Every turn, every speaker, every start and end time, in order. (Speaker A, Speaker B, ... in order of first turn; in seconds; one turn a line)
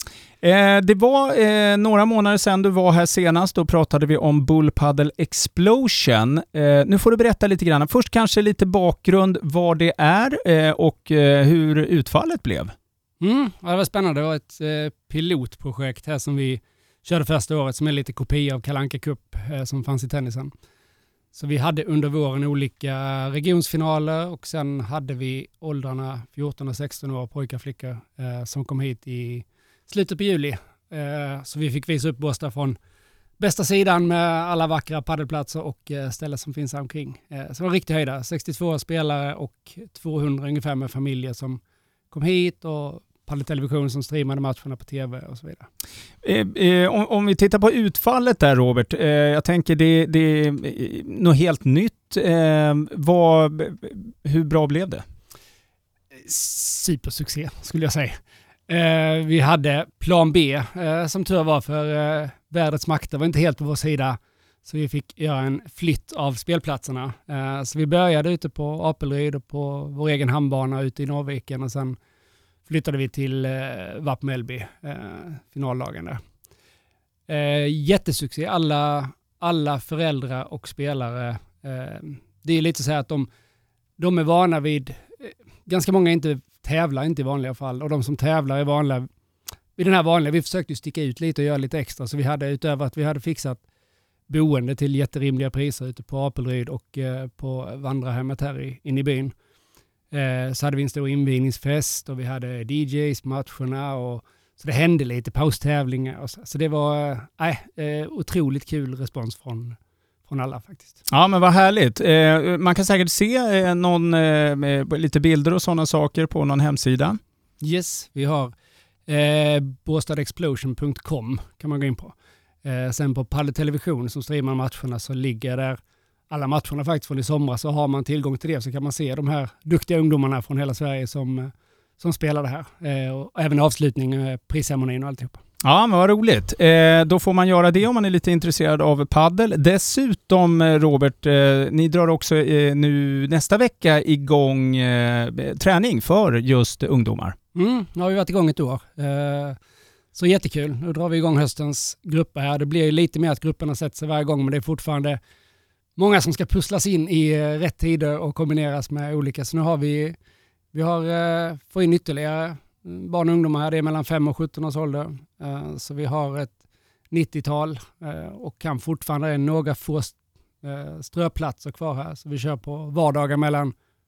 Speaker A: 0.4-12.7
Speaker B: 13.2-20.5
Speaker B: 21.3-32.8
Speaker B: 33.4-45.7
Speaker A: 46.2-55.0
Speaker B: 56.2-72.0
Speaker B: 72.7-76.2
Speaker B: 77.3-83.3
Speaker B: 84.0-89.1
Speaker B: 89.8-93.6
Speaker B: 94.3-99.3
Speaker B: 100.1-109.8
Speaker B: 110.3-111.0
Speaker A: 111.1-117.2
Speaker B: 117.6-118.5
Speaker B: 119.1-125.8
Speaker B: 126.3-135.4
Speaker A: 135.6-147.3
Speaker B: 147.6-149.6
Speaker B: 150.1-155.2
Speaker B: 156.0-160.2
Speaker B: 160.7-166.6
Speaker B: 167.1-173.7